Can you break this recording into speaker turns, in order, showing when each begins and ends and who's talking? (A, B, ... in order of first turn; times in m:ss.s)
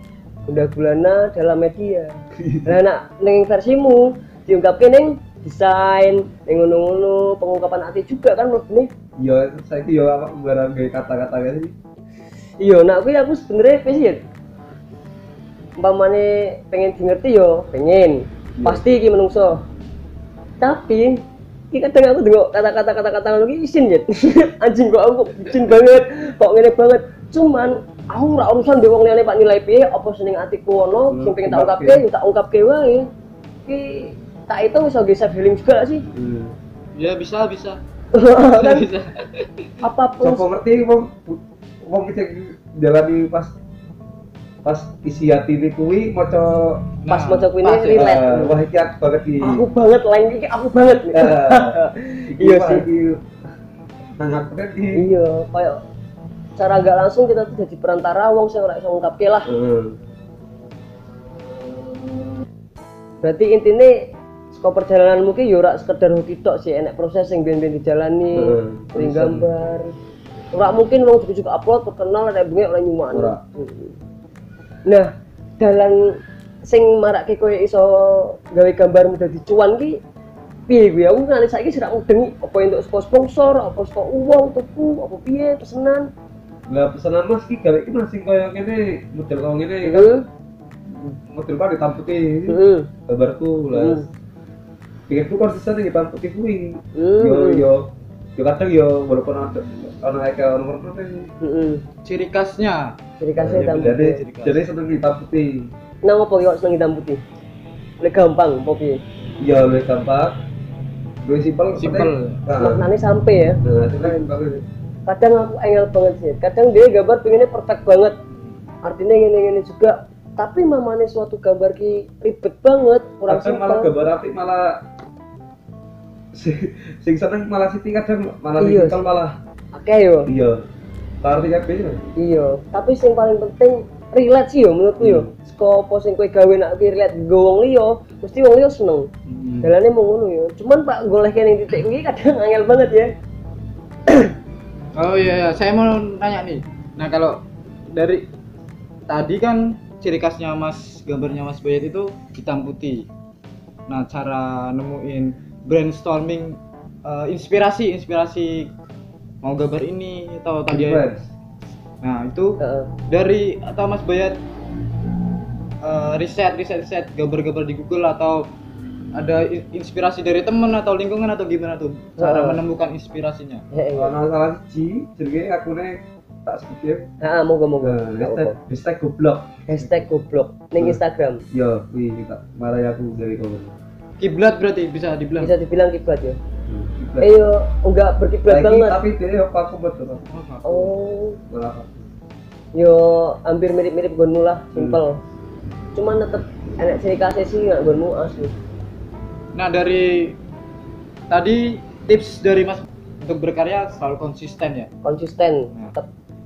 0:00.5-0:08.9 A
0:02.4-0:02.8 B
0:09.2-0:11.7 B
0:12.6-0:14.2 A
0:15.8-0:19.6 A
0:18.6-0:18.9 B
0:20.6-0:33.1 A
0:31.1-0:32.0 B
0:33.6-0:36.0 A
0:36.1-0:36.6 B
0:37.0-0:37.8 C
0:38.1-0:38.9 A
0:38.5-0:39.7 C
0:39.8-0:40.5 A
0:40.2-0:43.5 B
0:44.6-0:46.9 B
0:47.0-0:48.2 C
0:47.1-0:48.6 A
0:47.9-0:49.6 B
0:49.4-0:52.9 A
0:51.1-0:51.8 B
0:52.3-0:53.2 B
0:54.2-0:55.1 B
0:54.9-0:55.8 A
0:56.6-0:59.5 A
0:59.5-1:00.0 B
1:03.2-1:09.9 A
1:08.3-1:09.5 B
1:10.5-1:14.0 A
1:13.1-1:13.4 B
1:14.9-1:20.0 A
1:20.7-1:26.1 A
1:26.7-1:30.1 B
1:29.8-1:30.2 A
1:30.9-1:34.0 B
1:32.5-1:32.9 A
1:33.7-1:34.1 A
1:35.1-1:41.3 B
1:36.9-1:37.7 A
1:41.4-1:41.8 A
1:42.0-1:44.6 C
1:43.2-1:44.2 A
1:43.4-1:45.7 B
1:46.0-1:47.2 A
1:48.0-1:49.0 A
1:49.4-1:50.4 B
1:51.2-1:52.9 B
1:51.8-1:52.4 C
1:52.6-1:58.2 A
1:53.6-1:54.6 B
1:58.8-2:03.9 A
2:03.3-2:04.8 B
2:06.3-2:09.3 B
2:08.6-2:09.0 A
2:09.7-2:10.3 A
2:10.3-2:10.6 B
2:11.2-2:12.0 B
2:12.2-2:19.1 A
2:15.0-2:15.3 B
2:19.3-2:19.7 B
2:19.6-2:23.1 A
2:24.9-2:28.3 C
2:29.1-2:33.1 C
2:33.9-2:38.7 C
2:39.4-2:41.0 C
2:40.7-2:41.3 B
2:42.0-2:44.4 C
2:42.6-2:42.9 A
2:45.8-2:48.5 C
2:49.1-2:53.6 C
2:52.2-2:52.6 A
2:53.7-2:54.1 A
2:53.9-2:57.1 B
2:57.2-2:58.6 A
2:57.8-2:59.6 B
2:59.7-3:01.4 A
3:01.5-3:03.7 B
3:04.2-3:05.5 C
3:05.4-3:06.4 A
3:06.7-3:07.3 B
3:07.2-3:09.0 A
3:08.5-3:10.2 B
3:10.3-3:10.9 C
3:10.6-3:11.4 A
3:11.5-3:12.0 B
3:12.7-3:15.2 A
3:15.9-3:18.5 A
3:19.5-3:20.4 C
3:21.3-3:24.9 C
3:25.0-3:26.1 A